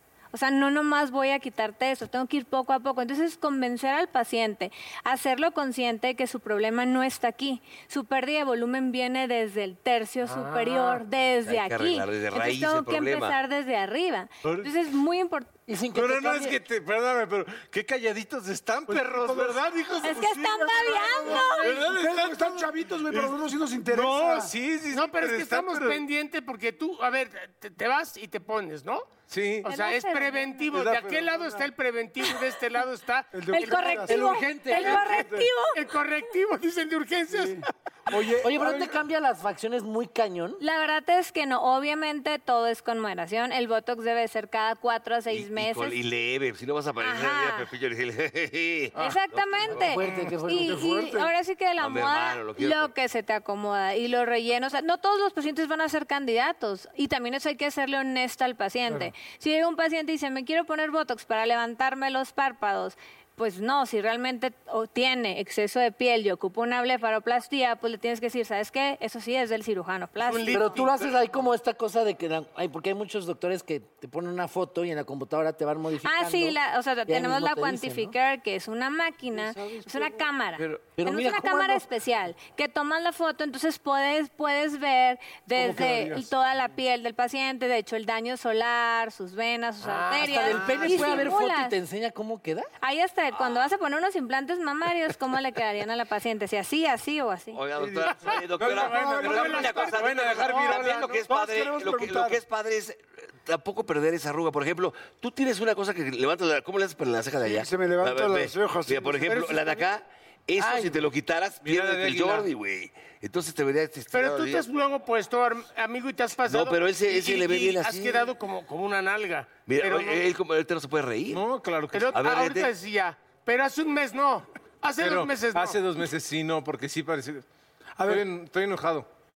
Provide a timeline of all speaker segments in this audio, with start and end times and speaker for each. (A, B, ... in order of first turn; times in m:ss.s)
0:00.3-0:15.5 A
0:10.2-0:11.0 B
0:11.4-0:13.3 C
0:14.4-0:14.7 D
0:15.7-0:16.6 E
0:15.9-0:26.0 D
0:18.9-0:24.5 F
0:20.0-0:21.8 A
0:24.9-0:34.0 B
0:29.3-0:29.7 D
0:29.6-0:30.7 A
0:30.7-0:31.7 D
0:33.3-0:34.2 F
0:33.5-0:35.8 A
0:34.0-0:35.0 E
0:34.8-0:35.0 B
0:34.9-0:35.5 F
0:35.7-0:37.6 B
0:37.3-0:39.0 F
0:38.4-0:40.6 E
0:40.6-0:46.0 A
0:45.3-0:49.9 C
0:47.0-0:47.7 A
0:48.9-1:10.8 A
0:49.7-0:51.1 E
0:50.1-0:51.3 F
0:51.8-0:52.9 C
1:10.2-1:11.2 B
1:10.5-1:18.1 E
1:16.0-1:31.7 A
1:19.3-1:21.9 E
1:25.5-1:26.3 F
1:29.9-1:31.4 B
1:29.9-1:32.7 E
1:32.8-1:37.6 A
1:37.5-1:54.6 C
1:37.8-1:42.4 F
1:38.6-1:41.2 D
1:39.2-1:40.2 B
1:47.4-1:49.4 F
1:49.3-1:49.9 B
1:50.6-1:51.0 E
1:51.6-1:52.5 D
1:54.1-2:00.2 B
1:56.5-1:58.2 C
1:59.6-2:01.4 C
2:01.3-2:02.2 D
2:01.9-2:05.8 B
2:02.1-2:02.7 C
2:05.0-2:07.4 D
2:08.0-2:08.3 F
2:08.0-2:09.1 D